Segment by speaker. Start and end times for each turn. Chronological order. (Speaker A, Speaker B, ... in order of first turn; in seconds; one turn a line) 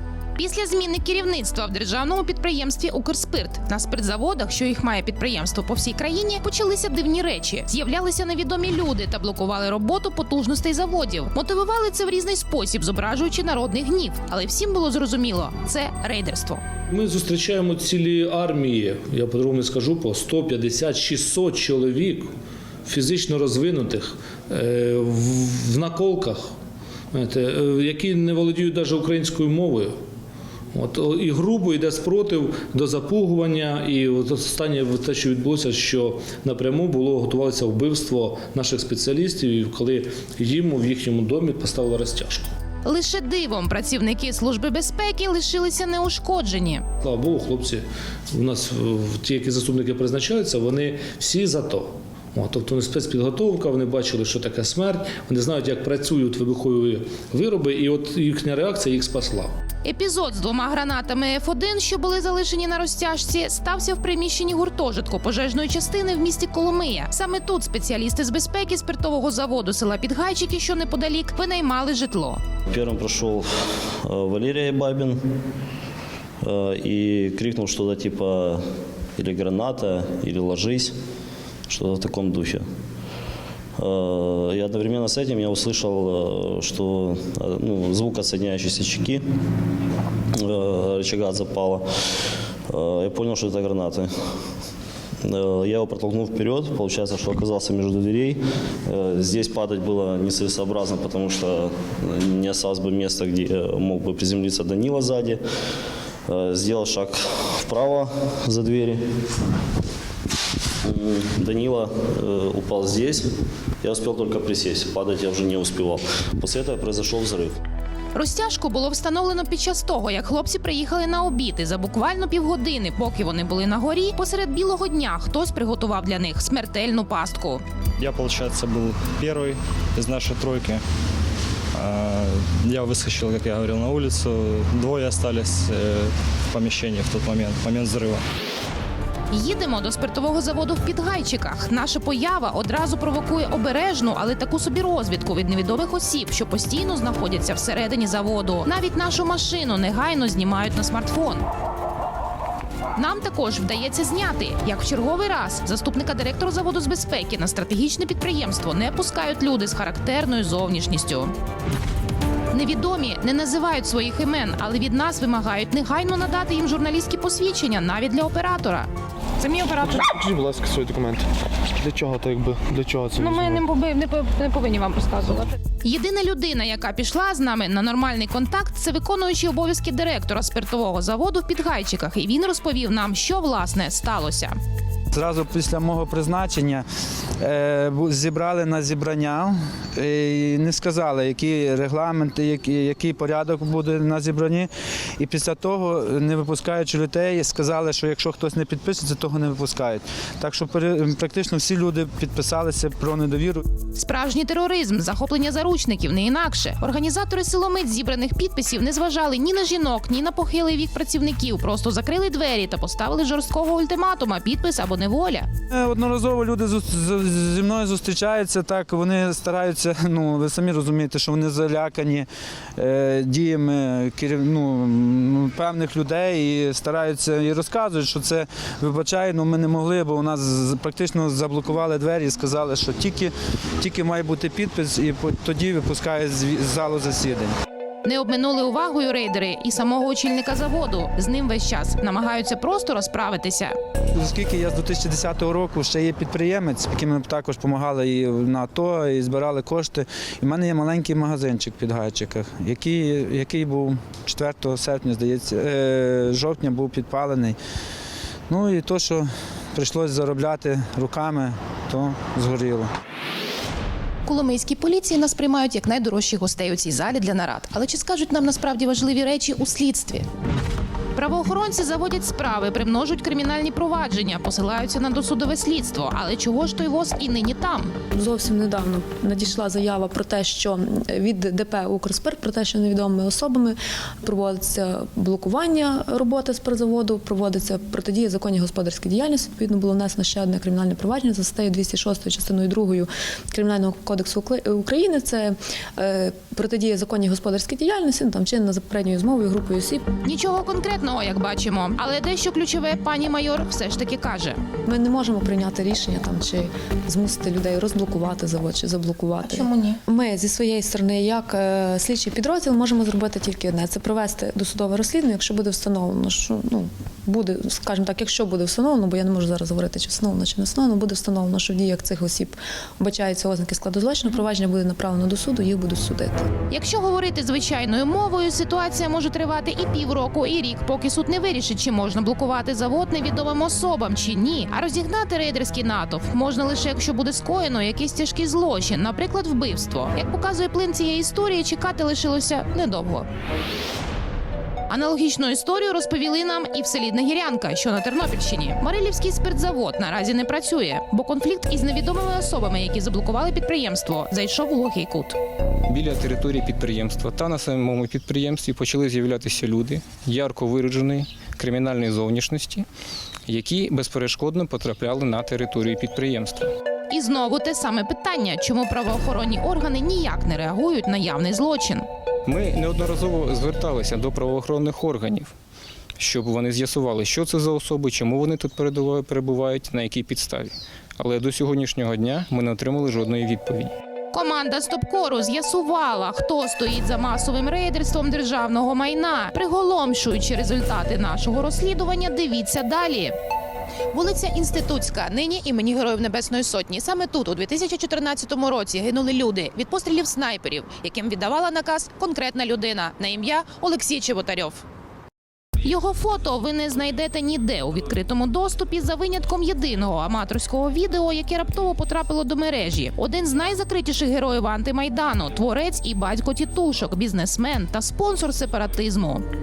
Speaker A: 0.3-16.6
Speaker B: 16.9-22.3
Speaker B: 22.9-26.5
Speaker B: 27.1-30.0
Speaker B: 30.7-42.5
Speaker A: 42.8-46.8
Speaker B: 47.0-59.5
Speaker A: 59.8-72.4
Speaker C: 72.7-75.2
Speaker C: 76.4-78.6
Speaker C: 79.2-80.9
Speaker C: 81.7-82.6
Speaker C: 83.8-89.2
Speaker C: 90.4-91.8
Speaker C: 92.7-94.1
Speaker C: 95.2-105.4
Speaker C: 106.3-109.0
Speaker C: 110.8-113.2
Speaker C: 113.8-117.5
Speaker A: 118.1-127.6
Speaker D: 128.2-129.5
Speaker D: 130.1-130.7
Speaker D: 131.9-132.2
Speaker D: 132.8-134.4
Speaker D: 135.0-135.7
Speaker D: 136.6-138.1
Speaker A: 139.3-151.4
Speaker A: 152.9-161.3
Speaker A: 162.5-170.1
Speaker E: 169.9-171.2
Speaker E: 171.8-173.6
Speaker A: 173.1-184.6
Speaker F: 185.1-186.8
Speaker F: 187.4-203.6
Speaker A: 203.9-215.5
Speaker F: 215.7-237.5
Speaker A: 238.0-243.8
Speaker F: 244.1-257.6
Speaker F: 258.5-262.9
Speaker A: 264.2-270.3
Speaker A: 271.1-277.9
Speaker G: 278.1-300.0
Speaker A: 300.2-304.6
Speaker G: 304.9-326.5
Speaker A: 326.7-343.3
Speaker A: 344.9-355.4
Speaker H: 355.9-362.9
Speaker H: 363.5-366.7
Speaker A: 367.1-372.1
Speaker H: 372.5-375.5
Speaker H: 376.2-383.9
Speaker A: 384.3-393.4
Speaker A: 394.1-404.8
Speaker A: 405.8-419.4